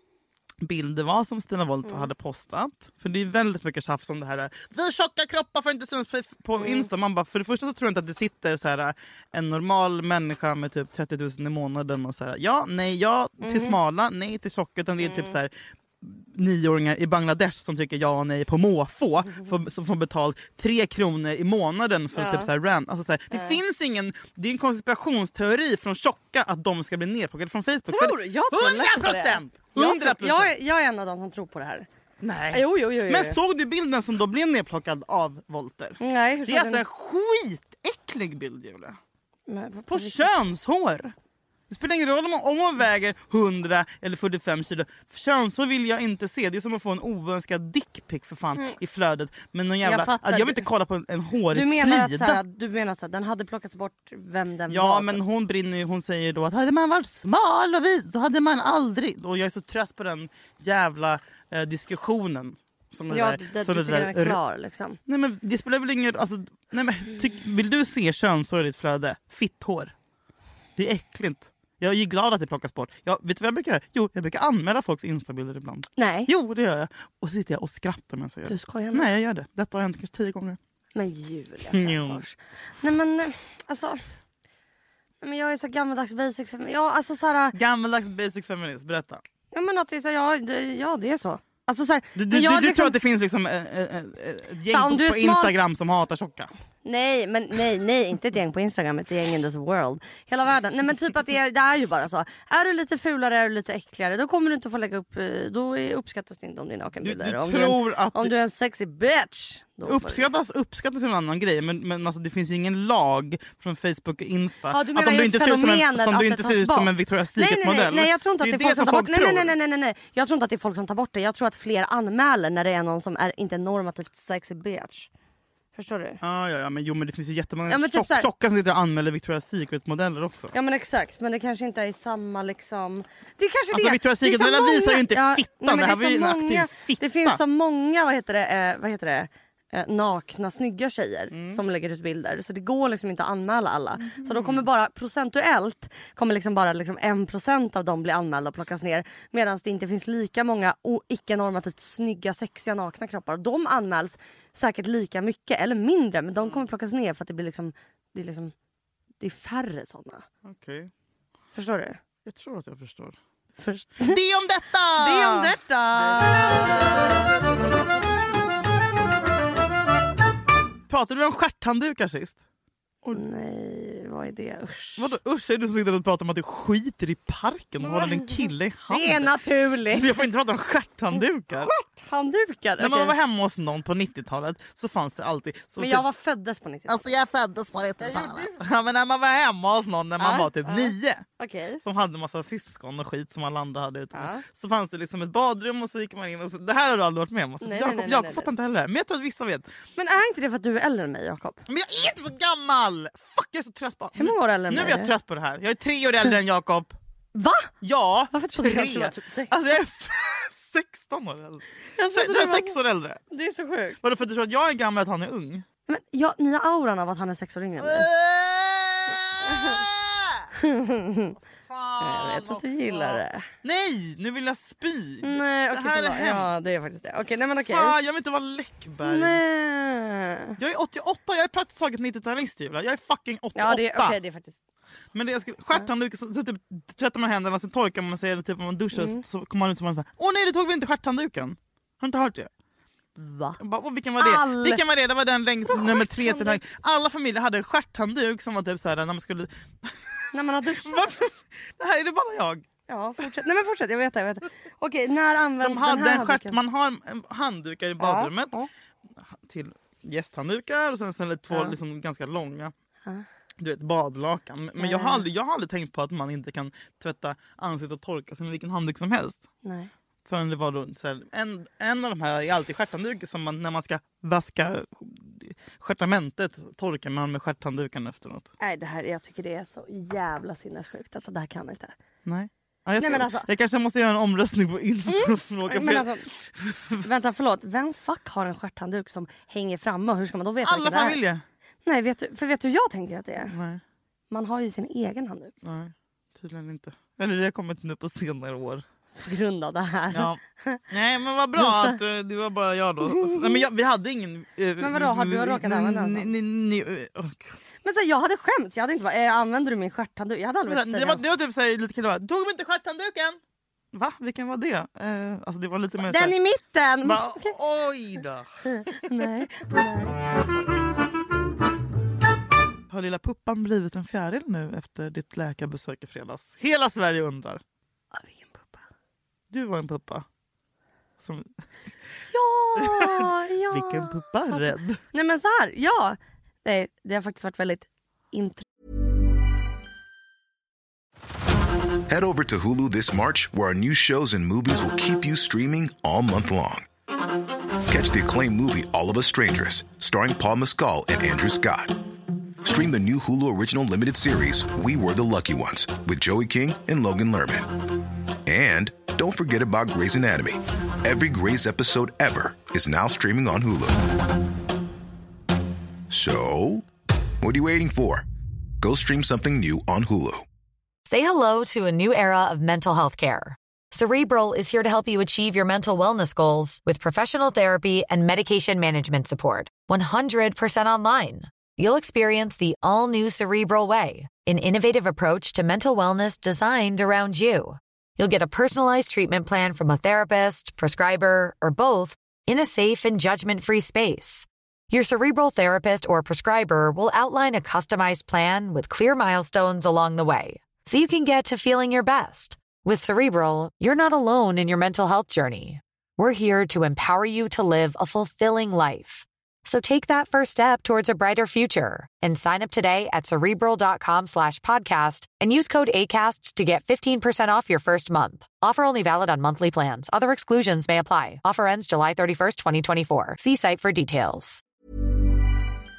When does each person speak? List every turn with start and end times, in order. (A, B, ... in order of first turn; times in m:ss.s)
0:00.6-0:30.5 A
0:06.6-0:06.9 B
0:13.4-0:13.8 B
0:15.0-0:15.4 B
0:22.2-0:22.5 B
0:23.3-0:23.6 B
0:27.9-0:31.9 B
0:32.2-0:39.0 A
0:32.5-0:33.4 B
0:36.0-0:36.8 B
0:39.5-0:40.4 B
0:39.9-0:41.1 A
0:41.7-0:52.4 A
0:49.8-0:50.6 B
0:51.5-0:55.2 B
0:54.7-1:04.4 A
1:03.1-1:05.0 B
1:05.1-1:09.9 A
1:10.8-1:20.6 A
1:16.0-1:16.3 B
1:18.5-1:19.1 B
1:20.9-1:24.0 B
1:21.7-1:22.2 A
1:25.2-1:27.6 B
1:27.5-1:29.2 A
1:29.5-1:33.0 B
1:32.2-1:36.5 A
1:34.7-1:35.5 B
1:36.8-1:50.3 B
1:47.0-1:48.3 A
1:49.8-1:59.5 A
1:54.7-2:05.1 B
2:05.7-2:06.2 B
2:06.2-2:10.5 A
2:07.7-2:08.3 B
2:10.5-2:38.5 B
2:13.7-2:17.4 A
2:21.3-2:21.6 A
2:24.0-2:24.6 A
2:39.2-2:40.2 B
2:40.4-2:40.9 A
2:41.5-2:42.0 B
2:42.2-2:43.2 A
2:43.6-2:44.2 B
2:44.0-2:48.5 A
2:45.0-2:47.4 B
2:50.9-2:52.4 A
2:53.1-2:55.0 B
2:55.0-2:59.4 A
2:57.8-3:00.2 B
2:59.9-3:01.7 A
3:01.1-3:03.1 B
3:02.8-3:06.0 A
3:05.8-3:07.1 B
3:06.9-3:11.2 A
3:08.0-3:08.6 B
3:10.2-3:11.8 B
3:11.8-3:19.7 A
3:14.1-3:14.4 B
3:17.6-3:18.5 B
3:20.0-3:21.6 B
3:21.7-3:26.9 A
3:24.1-3:25.1 B
3:27.3-3:27.7 B
3:27.8-3:33.2 A
3:28.3-3:29.5 B
3:32.0-3:32.8 B
3:33.3-3:34.0 B
3:34.0-3:35.6 A
3:35.9-3:38.1 B
3:37.8-3:40.5 A
3:39.5-3:39.8 B
3:40.6-3:41.4 B
3:41.6-3:46.5 A
3:42.0-3:43.4 B
3:45.2-3:48.0 B
3:47.6-3:49.4 A
3:49.0-3:50.6 B
3:50.6-3:54.2 A
3:53.5-3:54.6 B
3:55.1-4:02.5 A
3:58.9-3:59.2 B
4:03.2-4:03.6 B
4:03.6-4:12.7 A
4:04.2-4:04.8 B
4:05.7-4:06.6 B
4:10.3-4:11.2 B
4:12.9-4:16.6 B
4:15.6-4:18.5 A
4:18.0-4:18.7 B
4:19.3-4:22.7 A
4:23.6-4:29.4 A
4:24.8-4:25.2 B
4:29.6-4:29.9 B
4:30.2-4:38.5 A
4:38.6-4:41.9 B
4:42.2-4:47.0 A
4:43.0-4:43.5 B
4:45.1-4:46.3 B
4:47.0-4:51.2 B
4:50.6-4:51.4 A
4:51.8-4:53.5 B
4:53.5-4:53.8 A
4:54.3-4:55.5 B
4:55.6-4:58.8 A
4:59.2-5:00.8 B
5:00.1-5:07.6 A
5:01.6-5:02.0 B
5:03.0-5:03.6 B
5:04.8-5:06.3 B
5:07.8-5:11.2 B
5:10.7-5:13.4 A
5:13.9-5:16.3 A
5:16.0-5:17.5 B
5:17.0-5:19.2 A
5:18.7-5:20.3 B
5:22.9-5:27.6 A
5:28.1-5:28.8 B
5:29.5-5:30.2 A
5:31.2-5:31.5 A
5:32.3-5:38.6 B
5:32.8-5:35.0 A
5:42.1-5:46.9 C
5:47.9-5:52.0 C
5:52.6-5:57.7 C
5:58.4-6:04.1 C
6:06.1-6:06.9 C
6:07.4-6:08.2 C
6:08.8-6:10.4 C
6:11.0-7:04.6 D